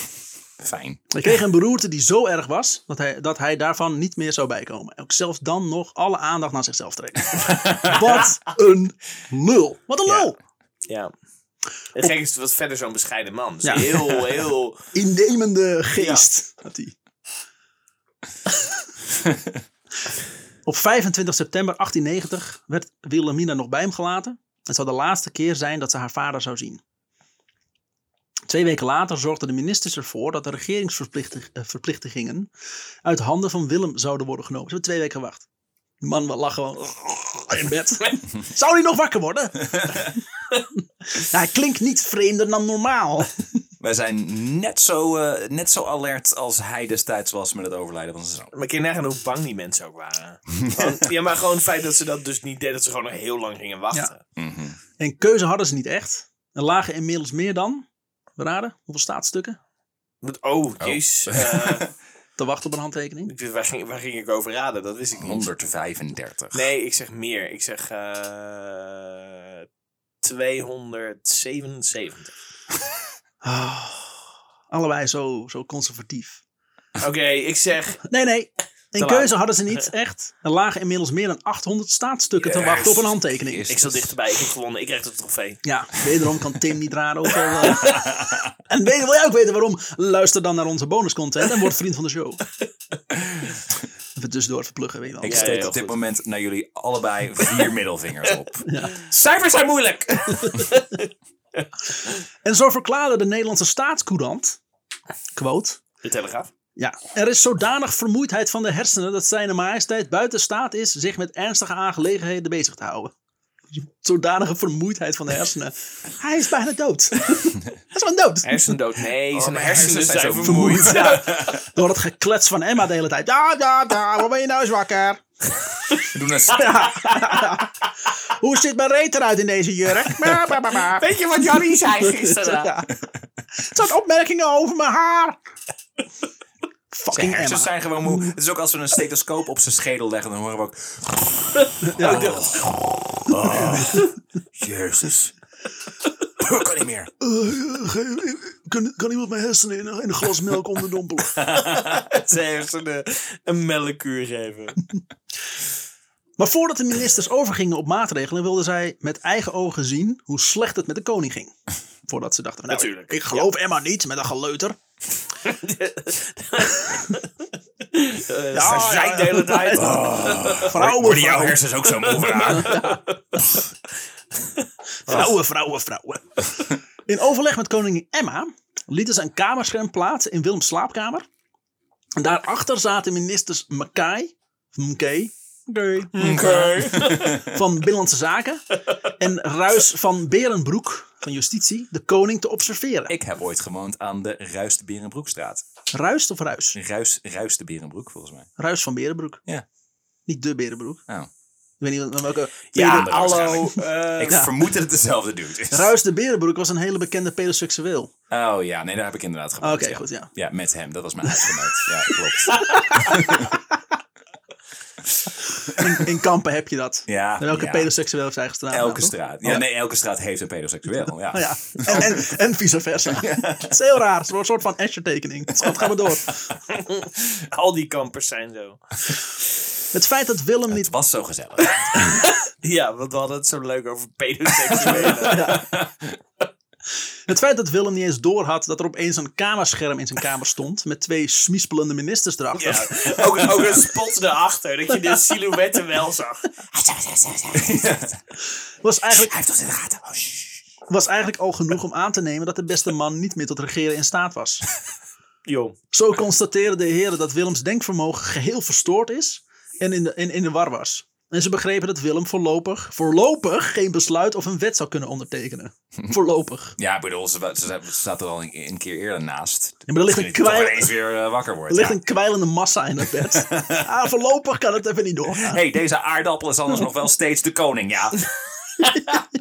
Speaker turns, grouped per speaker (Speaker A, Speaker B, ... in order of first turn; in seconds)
Speaker A: 0.6-1.0, 19.2-19.5, 43.8-48.5, 50.6-51.0, 54.4-54.8, 60.8-61.8, 65.2-66.7, 82.7-84.2, 88.1-88.4, 95.2-98.7, 119.3-121.6, 126.0-126.8, 130.5-131.0, 137.1-145.3, 146.4-147.1, 151.4-152.0, 169.7-172.9, 186.2-187.5, 193.1-195.6, 196.7-198.5, 202.7-205.9, 208.3-213.6, 217.1-217.9, 218.7-222.2, 223.1-223.7, 230.7-232.0, 235.0-236.2, 247.5-248.2, 249.3-250.5, 266.8-272.0, 273.2-273.9, 275.4-278.3
Speaker B: 1.1-10.4, 13.6-14.2, 14.9-16.9, 20.6-26.8, 28.5-32.5, 33.0-35.5, 36.0-40.1, 41.1-43.3, 55.0-57.9, 58.4-59.6, 62.4-63.3, 73.4-76.4, 78.1-83.7, 85.6-92.4, 94.2-95.7, 98.6-99.0, 102.4-104.6, 105.3-105.8, 106.8-113.1, 113.7-118.8, 120.4-125.2, 126.5-127.7, 128.3-131.0, 132.0-132.9, 133.6-135.4, 136.9-138.3, 141.8-142.4, 143.3-144.1, 147.2-151.4, 156.4-161.5, 162.1-164.8, 168.5-171.6, 172.5-173.0, 175.1-181.2, 182.2-186.4, 187.4-193.1, 195.9-196.8, 198.6-199.4, 200.3-201.0, 201.8-203.7, 205.7-208.1, 209.6-210.3, 211.2-211.6, 212.1-213.6, 215.6-219.6, 221.3-226.5, 229.9-230.9, 235.0-235.8, 237.3-243.4, 248.8-249.3, 250.9-254.7, 255.9-266.8, 269.9-271.0, 271.7-275.6
Speaker C: 10.9-11.1, 11.9-14.8, 48.5-54.2, 60.2-61.9, 63.3-65.5, 66.5-69.7, 70.2-72.3, 77.0-78.0, 78.9-79.9, 82.4-83.0, 83.7-85.6, 95.2-96.0, 98.9-101.1, 106.0-106.5, 118.4-121.2, 127.0-127.5, 130.7-132.8, 142.0-142.7, 151.5-154.8, 162.7-163.5, 165.4-167.3, 167.9-170.7, 171.9-173.4, 186.1-187.4, 202.7-204.4, 226.7-229.1, 231.8-235.6, 242.6-247.9, 255.4-255.8